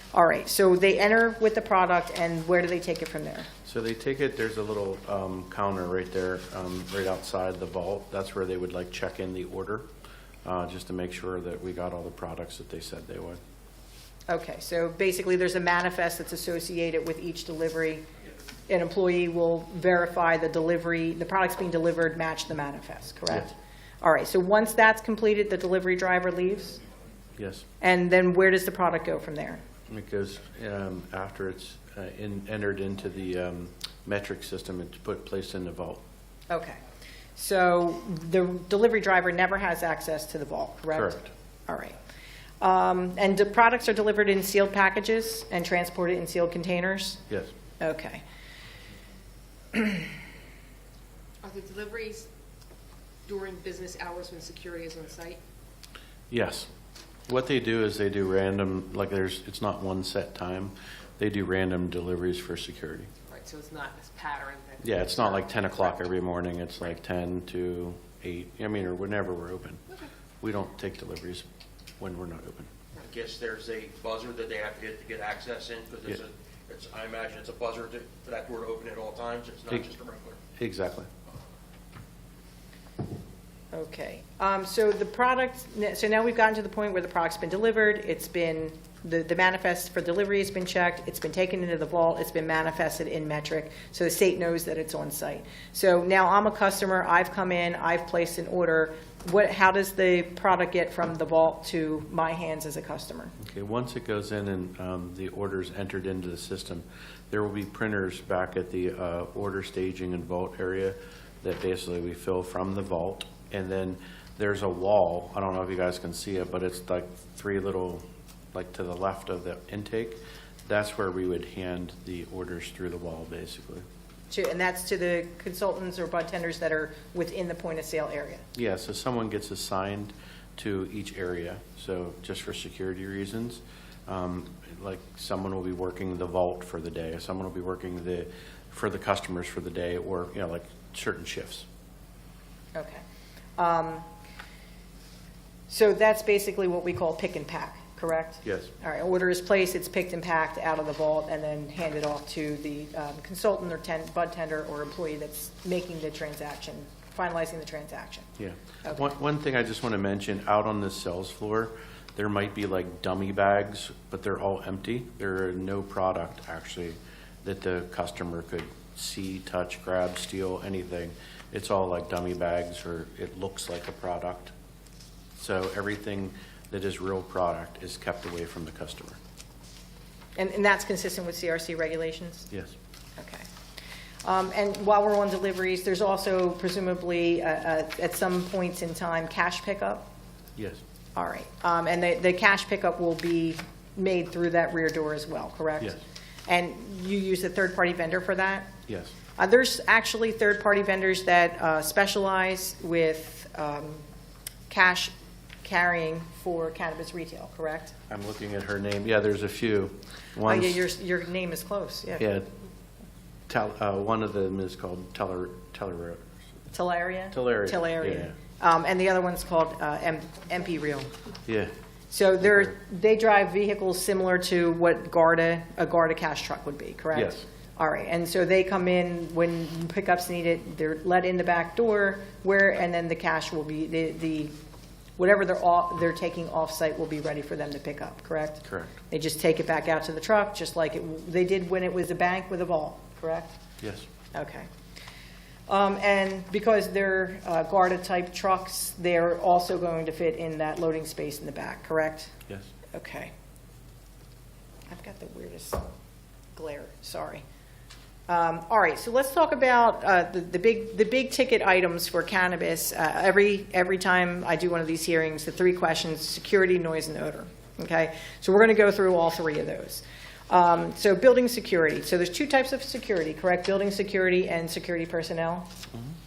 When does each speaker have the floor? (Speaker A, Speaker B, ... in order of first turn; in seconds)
Speaker A: 0.1-3.5, 14.3-18.1, 18.7-26.8, 27.8-29.6, 36.5-36.8, 37.4-42.0, 42.6-47.2, 47.8-48.2, 83.7-103.3, 124.3-128.4, 142.8-143.0, 143.6-144.1, 145.7-158.3, 180.4-182.5, 183.2-183.5, 184.2-190.1, 191.2-198.7, 199.4-204.1, 204.7-207.9, 210.5-212.2, 216.7-221.1, 222.1-234.5, 235.2-243.6, 244.3-244.7, 245.7-252.3, 252.9-253.3, 254.9-255.8, 256.5-257.4, 258.3-275.7
Speaker B: 3.7-9.9, 10.4-13.4, 27.4-27.7, 29.9-36.0, 40.9-41.3, 56.3-56.7, 57.3-63.1, 64.8-69.8, 70.4-71.5, 72.0-72.7, 80.6-81.1, 103.4-123.9, 128.6-141.7, 148.4-148.7, 158.4-174.5, 175.4-179.2, 182.5-182.8, 198.9-199.1, 208.1-210.8, 212.2-212.5, 213.5-216.2, 217.3-218.3, 227.1-227.4, 238.7-238.9, 243.8-244.1
Speaker C: 51.4-52.3, 53.3-55.4, 63.3-66.1
Speaker D: 73.0-80.4